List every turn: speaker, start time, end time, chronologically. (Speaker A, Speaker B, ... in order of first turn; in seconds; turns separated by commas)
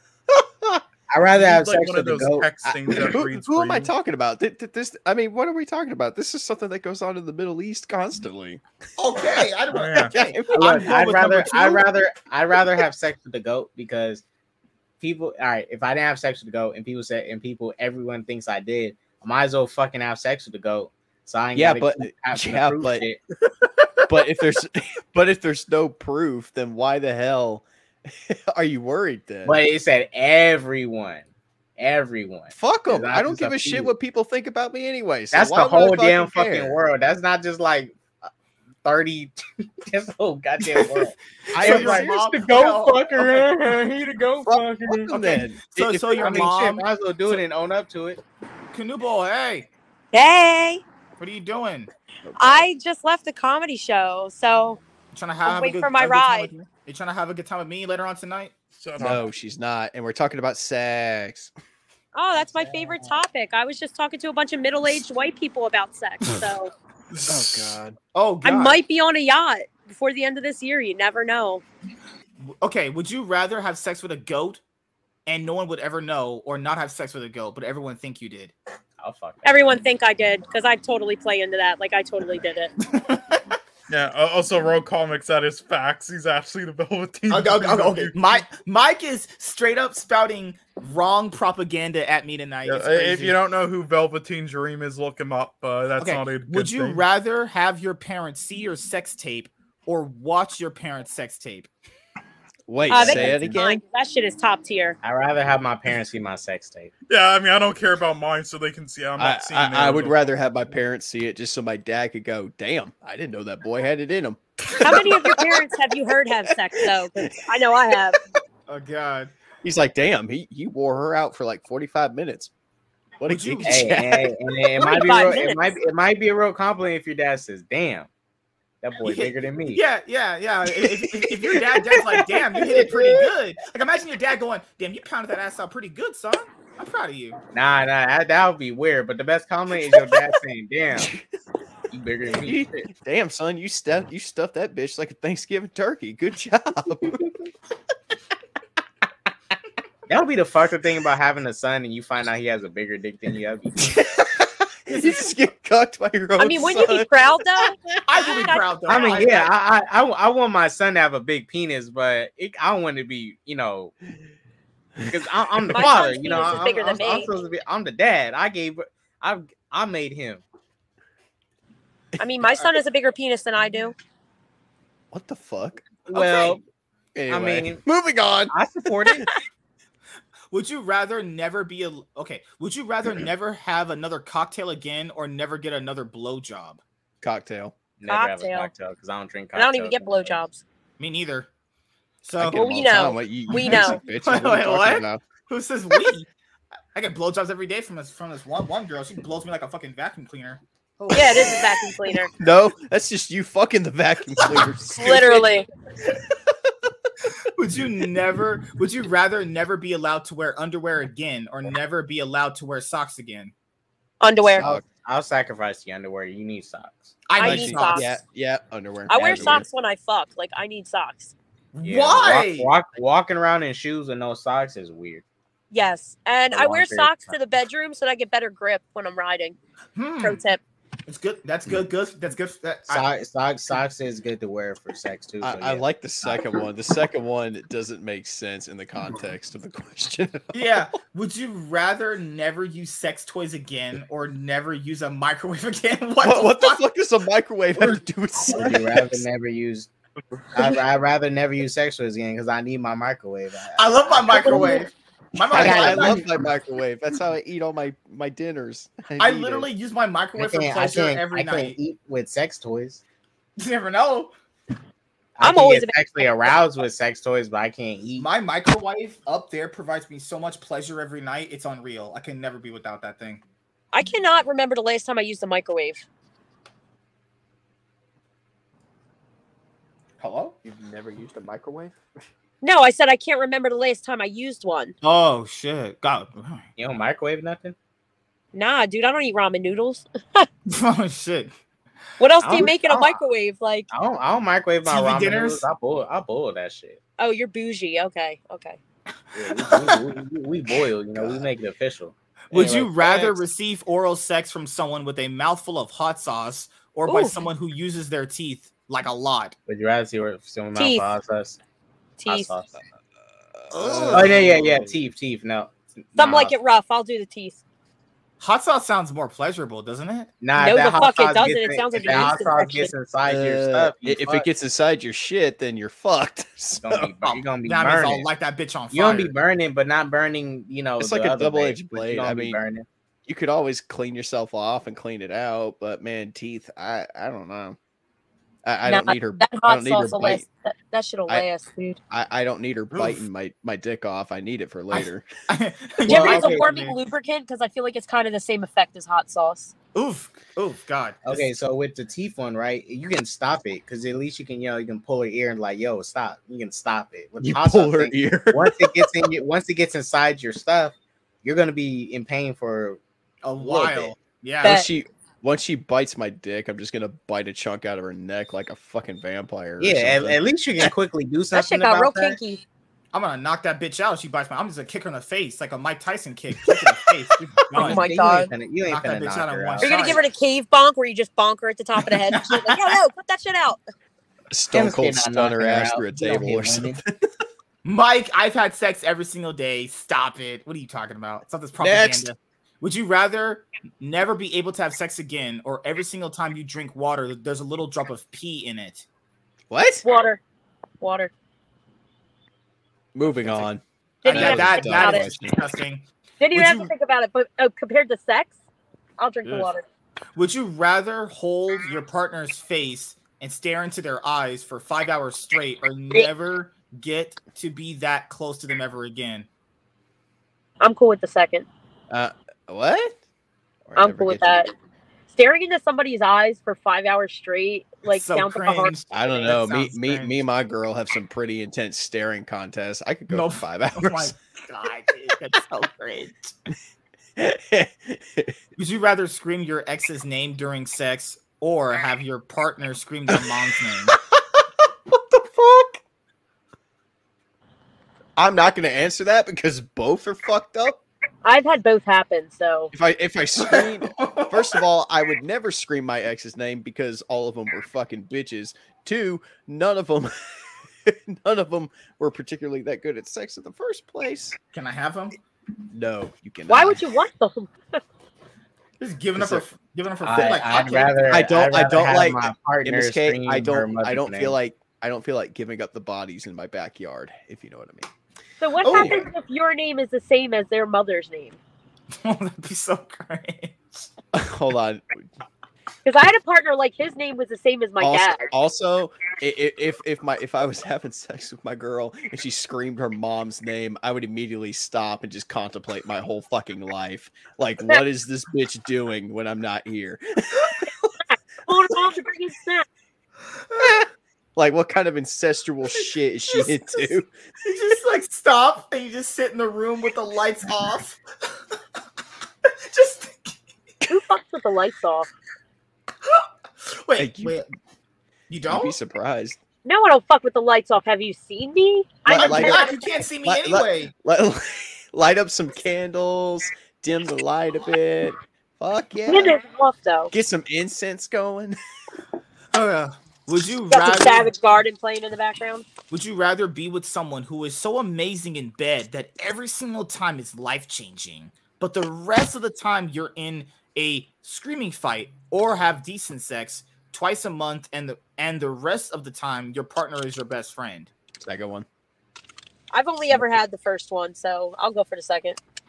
Speaker A: 0.4-0.8, Speaker B: 1.1-3.2, Speaker C: 1.3-3.9, Speaker A: 3.0-8.6, Speaker D: 9.0-11.9, Speaker A: 9.3-10.6, Speaker C: 9.7-10.1, Speaker B: 10.5-14.2, Speaker B: 15.0-23.2, Speaker A: 21.6-23.1, Speaker A: 24.1-29.6, Speaker B: 29.4-33.9, Speaker A: 32.5-36.8, Speaker B: 35.3-38.0, Speaker B: 38.8-45.2, Speaker D: 40.6-43.5, Speaker A: 41.5-42.2, Speaker A: 44.4-46.5, Speaker D: 45.1-47.4, Speaker B: 46.1-48.2, Speaker D: 48.7-49.7, Speaker E: 50.1-50.8, Speaker D: 51.2-51.9, Speaker A: 52.2-52.7, Speaker E: 52.4-54.8, Speaker D: 55.1-58.5, Speaker E: 55.5-56.5, Speaker C: 58.8-59.2, Speaker A: 59.0-61.5, Speaker E: 62.1-66.7, Speaker D: 62.4-63.0, Speaker C: 67.1-68.0, Speaker A: 67.3-67.8, Speaker D: 68.0-68.8, Speaker E: 68.4-71.6, Speaker D: 72.4-74.6, Speaker D: 75.3-78.5, Speaker B: 79.0-79.8, Speaker E: 79.4-82.7, Speaker D: 82.9-83.4, Speaker C: 83.9-88.4, Speaker D: 87.3-93.4, Speaker C: 92.6-97.0, Speaker D: 96.0-101.7, Speaker A: 102.7-103.8, Speaker E: 102.9-105.0, Speaker B: 102.9-103.6, Speaker B: 105.0-106.9, Speaker C: 107.1-110.2, Speaker A: 109.2-117.5, Speaker E: 114.8-118.2, Speaker D: 118.7-119.3, Speaker A: 119.6-122.5, Speaker A: 123.2-124.3, Speaker D: 123.3-123.9, Speaker B: 123.7-128.1, Speaker E: 124.8-125.8, Speaker B: 128.8-129.8, Speaker D: 129.0-137.4, Speaker A: 132.7-133.2, Speaker B: 137.5-141.1, Speaker A: 140.9-141.3, Speaker B: 141.9-142.9, Speaker A: 142.4-147.2, Speaker B: 150.1-154.1, Speaker A: 153.8-157.3, Speaker E: 156.4-159.2, Speaker D: 158.1-159.5, Speaker B: 158.9-163.9, Speaker B: 165.1-170.4, Speaker E: 165.7-167.3, Speaker D: 165.8-167.2, Speaker E: 172.2-173.9, Speaker A: 175.1-176.6, Speaker B: 176.1-176.6, Speaker A: 177.2-178.6, Speaker B: 177.3-177.8, Speaker B: 178.5-179.3, Speaker D: 180.5-186.8, Speaker A: 187.2-187.8, Speaker B: 188.0-190.4, Speaker E: 188.1-188.7, Speaker E: 189.6-190.6, Speaker D: 191.0-191.5, Speaker D: 192.2-192.6, Speaker A: 192.4-195.2, Speaker E: 192.5-194.0, Speaker D: 193.5-196.3, Speaker D: 196.9-202.0, Speaker E: 201.1-202.3, Speaker A: 202.4-205.5, Speaker D: 204.4-205.2, Speaker E: 204.9-205.7, Speaker D: 207.5-213.5, Speaker E: 214.2-214.7, Speaker A: 214.4-214.8, Speaker B: 214.6-217.2, Speaker D: 217.3-218.2, Speaker E: 217.3-218.2, Speaker A: 217.4-219.7, Speaker E: 219.1-221.3, Speaker B: 219.2-219.7, Speaker D: 221.7-222.7, Speaker B: 221.8-225.2, Speaker E: 225.7-229.6, Speaker B: 226.5-227.4, Speaker D: 230.0-230.4, Speaker E: 230.2-230.6, Speaker D: 231.1-233.1, Speaker B: 232.9-236.6, Speaker A: 235.4-240.6, Speaker D: 240.5-246.8, Speaker A: 246.2-249.3, Speaker B: 248.5-249.9, Speaker B: 250.5-254.9, Speaker D: 253.8-256.3, Speaker B: 255.5-256.2, Speaker A: 255.5-259.7, Speaker D: 259.2-261.8, Speaker B: 260.4-263.0, Speaker D: 263.6-264.3, Speaker B: 265.4-268.3, Speaker E: 265.4-266.5, Speaker D: 268.2-273.4, Speaker E: 273.9-276.1, Speaker D: 280.2-280.6, Speaker A: 280.6-282.0, Speaker E: 282.6-284.9, Speaker D: 285.0-286.6, Speaker B: 286.8-287.8, Speaker E: 288.5-290.5, Speaker D: 290.7-291.5, Speaker E: 292.2-293.9, Speaker B: 292.4-293.2, Speaker B: 293.9-297.0, Speaker D: 294.9-295.6, Speaker E: 297.2-298.8, Speaker B: 299.4-303.4, Speaker D: 299.5-300.0, Speaker A: 301.1-301.4, Speaker D: 302.5-309.6, Speaker E: 307.1-307.4, Speaker B: 309.7-311.6, Speaker E: 310.8-311.1, Speaker E: 312.2-312.5, Speaker B: 312.3-312.7, Speaker A: 313.5-315.0, Speaker D: 313.7-314.5, Speaker B: 314.1-316.6, Speaker E: 316.1-317.6, Speaker D: 318.4-320.3, Speaker B: 320.4-324.5, Speaker E: 320.6-322.9, Speaker A: 323.3-327.1, Speaker B: 326.8-328.3, Speaker D: 327.2-329.3, Speaker B: 328.9-332.9, Speaker A: 331.0-332.6, Speaker A: 333.3-337.8, Speaker A: 338.6-340.5, Speaker E: 338.9-342.0, Speaker A: 342.1-345.2, Speaker D: 342.9-343.2, Speaker D: 345.5-347.0, Speaker E: 346.1-349.7, Speaker B: 346.1-346.7, Speaker D: 349.9-351.5, Speaker B: 351.2-363.0, Speaker A: 357.4-359.3, Speaker D: 363.4-364.8, Speaker B: 363.6-364.1, Speaker A: 364.6-370.9, Speaker B: 369.8-372.4, Speaker E: 371.5-372.6, Speaker D: 373.1-378.1, Speaker B: 377.7-380.2, Speaker E: 377.8-378.5, Speaker D: 378.9-380.3, Speaker E: 379.8-383.8, Speaker D: 382.0-383.0, Speaker A: 384.5-387.3, Speaker B: 384.7-387.0, Speaker D: 387.9-399.1, Speaker A: 391.8-392.3, Speaker A: 399.7-400.1, Speaker E: 400.0-400.4, Speaker E: 401.0-401.3, Speaker A: 403.1-405.6, Speaker E: 404.2-405.3, Speaker D: 404.2-406.9, Speaker E: 406.4-408.5, Speaker E: 409.2-409.8, Speaker D: 410.4-419.5, Speaker E: 420.8-421.7, Speaker A: 422.1-423.2, Speaker A: 423.9-424.7, Speaker E: 424.0-424.7, Speaker E: 425.3-428.9, Speaker D: 428.1-430.4, Speaker A: 429.1-434.3, Speaker D: 433.3-436.5, Speaker A: 437.4-438.6, Speaker D: 438.8-444.2, Speaker A: 444.1-446.0, Speaker A: 448.4-451.0, Speaker E: 451.4-452.9, Speaker A: 452.9-464.6, Speaker D: 453.7-454.8, Speaker D: 464.7-465.4, Speaker A: 465.9-467.0, Speaker E: 466.7-468.0, Speaker D: 469.0-471.5, Speaker A: 469.4-469.6, Speaker B: 470.2-474.6, Speaker A: 470.3-470.7, Speaker A: 471.3-478.1, Speaker E: 478.6-481.6, Speaker D: 478.8-479.3, Speaker A: 478.9-479.2, Speaker D: 482.2-484.1, Speaker A: 484.3-485.3, Speaker E: 486.1-488.5, Speaker A: 488.0-500.9, Speaker E: 501.7-502.9, Speaker D: 503.7-504.0, Speaker A: 503.8-504.1, Speaker A: 504.6-507.3, Speaker D: 506.5-511.2, Speaker D: 512.9-513.5, Speaker E: 514.1-515.3, Speaker D: 516.8-517.7, Speaker A: 517.2-517.6, Speaker D: 518.5-519.0, Speaker A: 518.7-519.6, Speaker E: 519.9-523.2, Speaker D: 522.3-524.1, Speaker A: 522.3-522.9, Speaker A: 523.4-529.6, Speaker E: 529.3-530.3, Speaker A: 530.3-531.8, Speaker D: 532.7-534.5, Speaker E: 533.9-535.9, Speaker D: 536.1-551.1, Speaker A: 551.4-551.9, Speaker E: 552.9-555.6